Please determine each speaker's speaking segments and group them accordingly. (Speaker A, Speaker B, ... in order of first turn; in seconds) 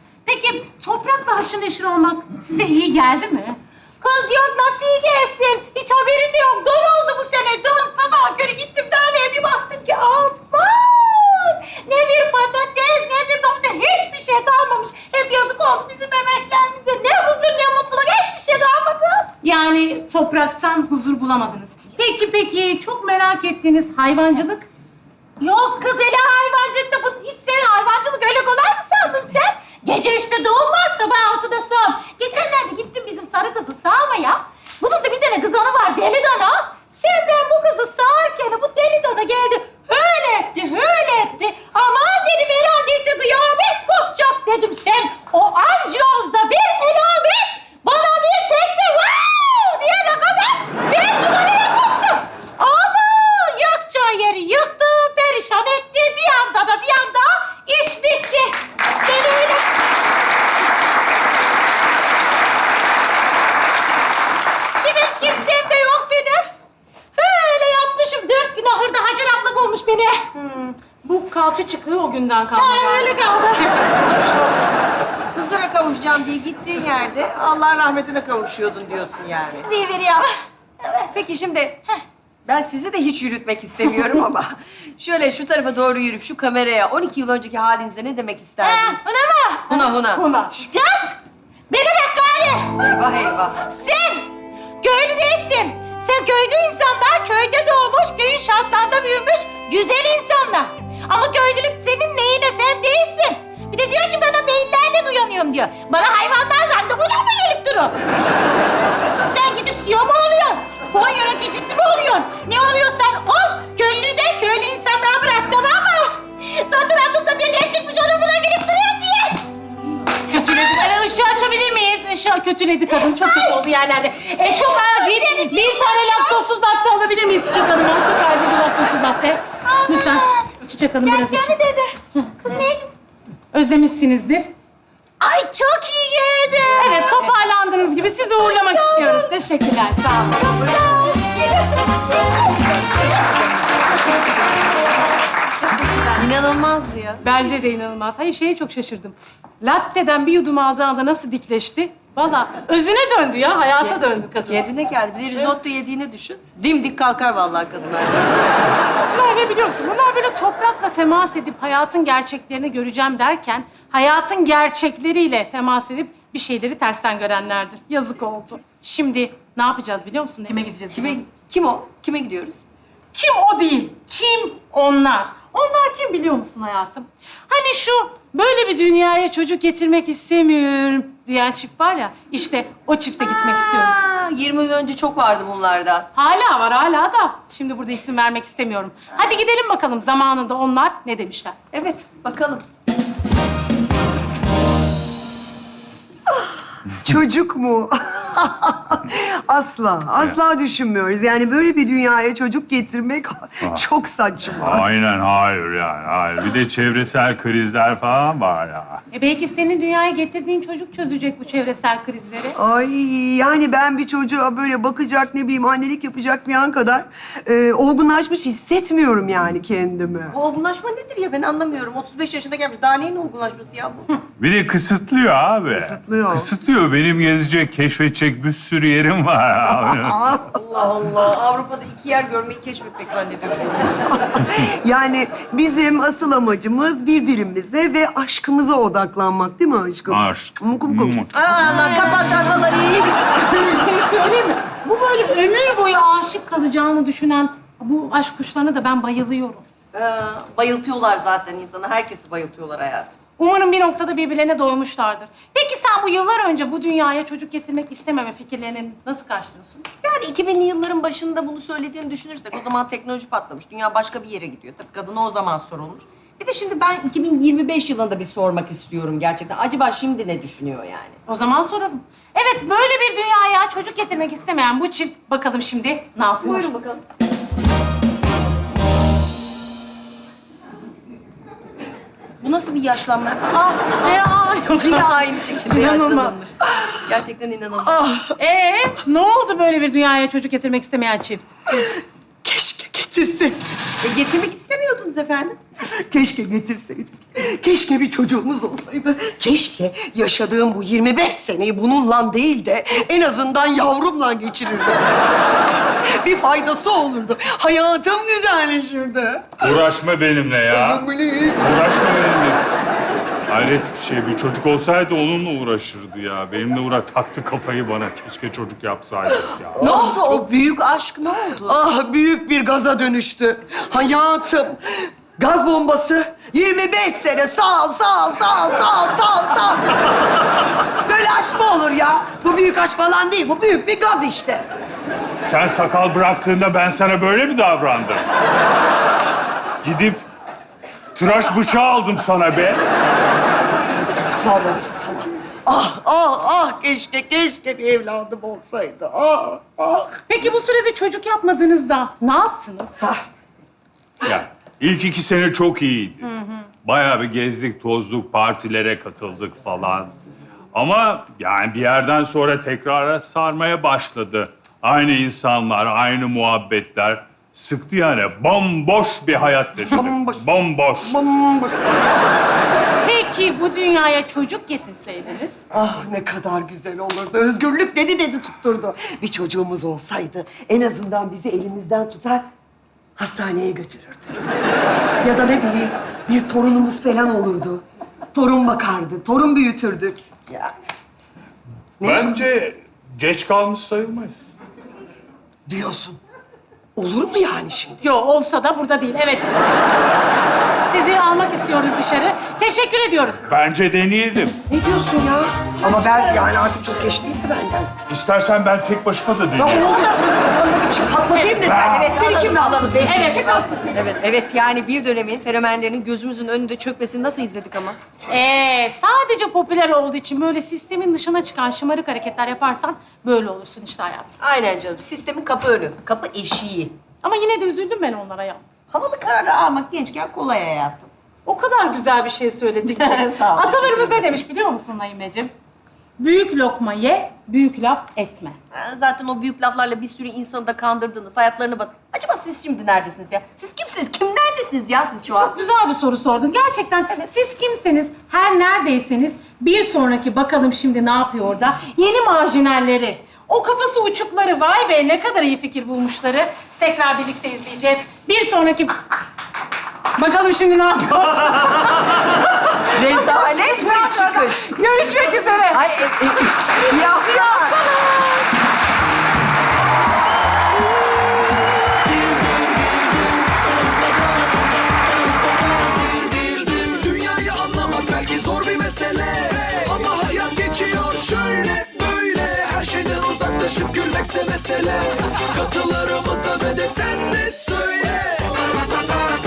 Speaker A: 0.2-3.6, 19.4-24.7, 70.8-74.7, 90.1-90.5, 120.3-131.6, 132.2-132.5, 133.5-134.5, 136.8-140.4, 147.2-154.7, 159.1-171.2, 173.1-184.1, 186.1-191.6, 209.1-212.6, 241.6-242.6, 243.1-249.6, 253.4-259.9, 271.3-276.7, 284.0-286.4, 288.4-291.5, 350.3-353.0, 373.0-375.6, 398.0-399.8, 400.9-403.5, 413.1-413.6, 418.3-424.4, 427.2-428.6, 431.4-435.5, 436.2-438.6, 445.3-458.9, 460.1-462.2, 462.9-465.8, 466.6-468.5
Speaker B: 4.0-19.3, 25.4-59.6, 64.8-66.4, 67.2-70.2, 72.6-73.7, 79.6-80.3, 80.8-81.1, 88.6-89.8, 90.5-91.2, 91.7-92.8, 93.6-94.2, 94.8-108.0, 109.2-119.4, 120.3-120.8, 122.9-123.6, 124.4-126.4, 129.7-130.5, 131.0-132.9, 135.2-137.3, 138.4-139.3, 140.3-143.8
Speaker C: 75.3-79.7, 81.1-81.8, 82.5-89.0, 89.7-90.2, 92.8-93.6, 146.1-147.2, 153.7-158.6, 170.9-172.6, 183.2-186.1, 191.7-192.7, 220.3-224.2, 230.5-234.0, 241.3-243.7, 249.9-253.2, 260.0-271.2, 276.4-277.0, 282.4-288.0, 294.0-295.6, 319.8-321.8, 411.3-418.0, 424.4-426.9, 428.9-431.1, 432.9-434.3, 438.7-445.6, 462.9-464.8, 465.7-467.8
Speaker D: 197.0-204.8, 212.6-220.3, 225.7-226.5, 229.7-230.5, 234.1-241.3, 287.8-288.4, 292.4-293.8, 296.1-305.2, 306.2-309.8, 310.7-311.9, 319.7-320.3, 321.6-329.9, 331.0-334.6, 344.2-350.2, 353.0-353.2, 369.9-370.4, 371.0-371.9, 375.7-382.5, 383.2-384.5, 385.2-387.8, 388.3-390.7, 392.0-392.3, 395.7-396.2, 396.9-398.0, 404.7-407.9, 409.6-413.9
Speaker E: 204.6-209.0, 224.4-230.2, 240.1-241.4, 309.6-311.0, 311.6-312.6, 313.5-320.0, 335.4-338.2, 339.8-340.2, 341.1-342.8, 354.2-356.3, 356.8-360.1, 360.7-371.1, 392.0-394.5, 403.5-404.6, 408.1-410.0, 411.6-412.0
Speaker F: 475.9-488.5